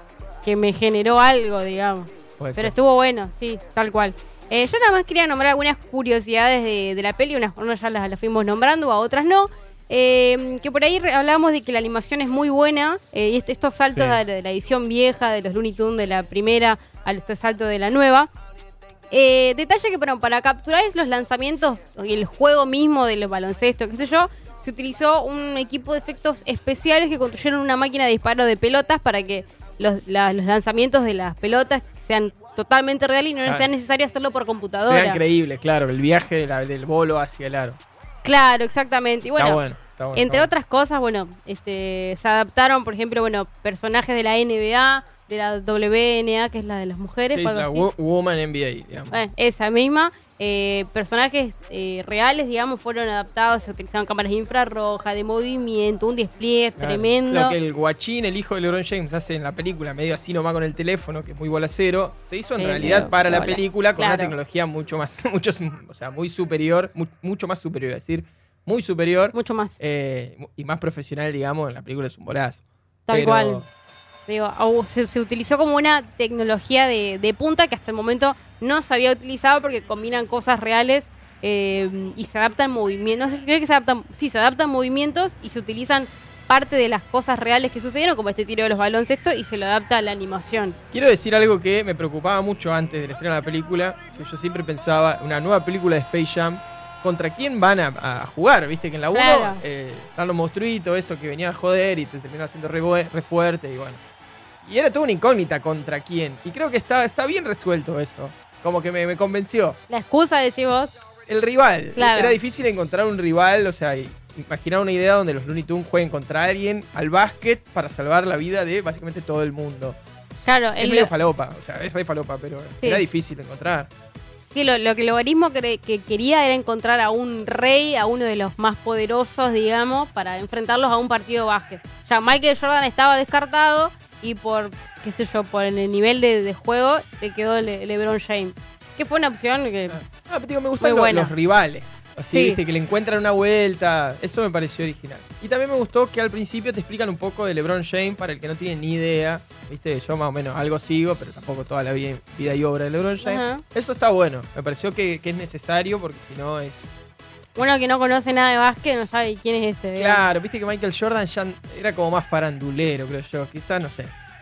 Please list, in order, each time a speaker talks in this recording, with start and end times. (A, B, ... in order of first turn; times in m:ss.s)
0:00.4-0:18.3 A
0:02.4-0:02.7 B
0:19.1-0:35.2 A
0:34.9-0:37.8 B
0:38.2-0:39.6 A
0:39.4-0:40.5 B
0:40.2-0:47.9 A
0:47.3-0:49.3 B
0:49.1-0:57.6 A
0:56.8-1:13.6 B
1:02.6-1:04.4 A
1:09.3-1:09.8 A
1:13.1-1:13.6 A
1:14.3-1:30.8 A
1:30.9-1:44.0 B
1:39.1-1:39.6 A
1:44.6-1:49.8 B
1:49.9-1:50.9 A
1:51.3-2:00.0 B
1:52.0-1:52.4 A
2:00.4-2:01.1 A
2:00.8-2:03.9 B
2:04.5-2:20.0 A
2:19.9-2:37.0 B
2:20.8-2:21.3 A
2:22.3-2:22.6 A
2:33.2-2:33.6 A
2:37.6-2:40.3 A
2:40.0-2:44.1 B